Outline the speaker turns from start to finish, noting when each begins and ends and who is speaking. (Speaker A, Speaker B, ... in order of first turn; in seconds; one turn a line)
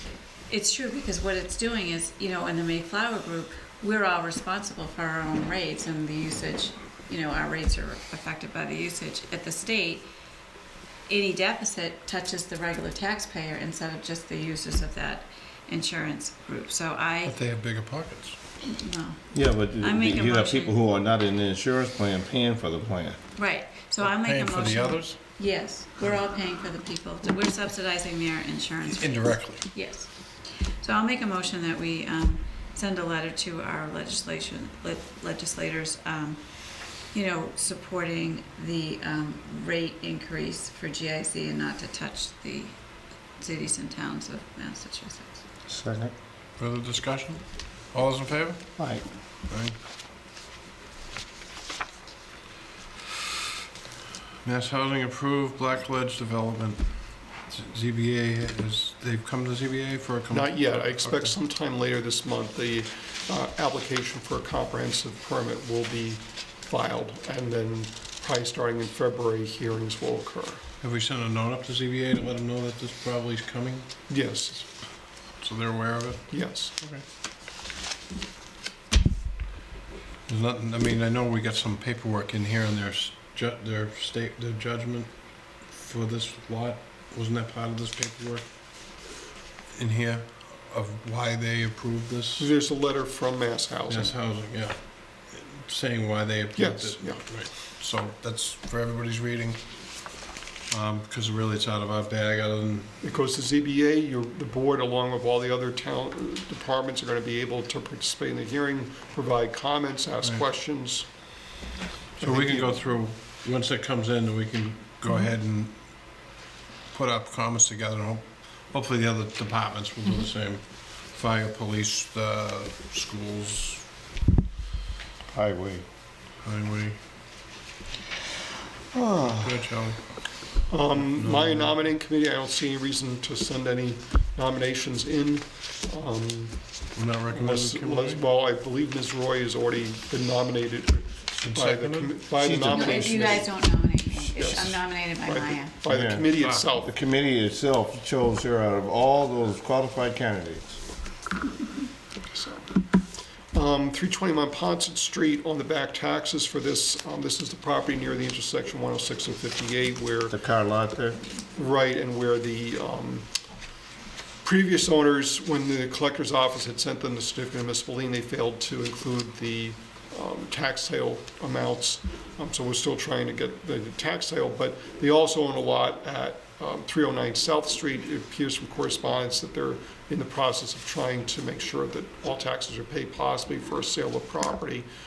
Speaker A: 0.5-10.1
Speaker A: 11.1-17.3
Speaker B: 17.2-18.4
Speaker A: 18.6-20.7
Speaker C: 19.3-23.2
Speaker A: 23.4-30.1
Speaker B: 24.0-25.2
Speaker B: 28.9-29.6
Speaker A: 30.8-42.8
Speaker A: 43.4-45.4
Speaker C: 45.7-46.1
Speaker B: 46.6-48.7
Speaker C: 48.8-49.0
Speaker B: 49.5-49.8
Speaker B: 54.4-61.3
Speaker D: 60.3-70.6
Speaker B: 70.8-73.9
Speaker D: 74.1-74.7
Speaker B: 75.4-77.0
Speaker D: 76.3-76.7
Speaker B: 80.3-88.5
Speaker B: 89.7-92.5
Speaker D: 92.4-94.1
Speaker B: 93.9-99.6
Speaker D: 96.5-97.2
Speaker B: 100.7-102.9
Speaker D: 103.0-111.1
Speaker D: 112.2-112.8
Speaker B: 112.2-115.8
Speaker B: 116.9-123.9
Speaker C: 125.3-125.8
Speaker B: 126.4-127.0
Speaker C: 128.9-129.5
Speaker B: 129.2-130.0
Speaker D: 130.7-136.7
Speaker B: 130.9-131.8
Speaker B: 136.9-138.2
Speaker D: 137.3-146.9
Speaker B: 141.4-142.2
Speaker C: 142.4-143.4
Speaker A: 142.6-145.7
Speaker C: 145.9-150.8
Speaker B: 146.4-146.6
Speaker D: 152.3-152.8
Speaker D: 153.5-160.3
Speaker C: 160.3-161.2
Speaker D: 161.6-163.3
Speaker D: 164.4-184.9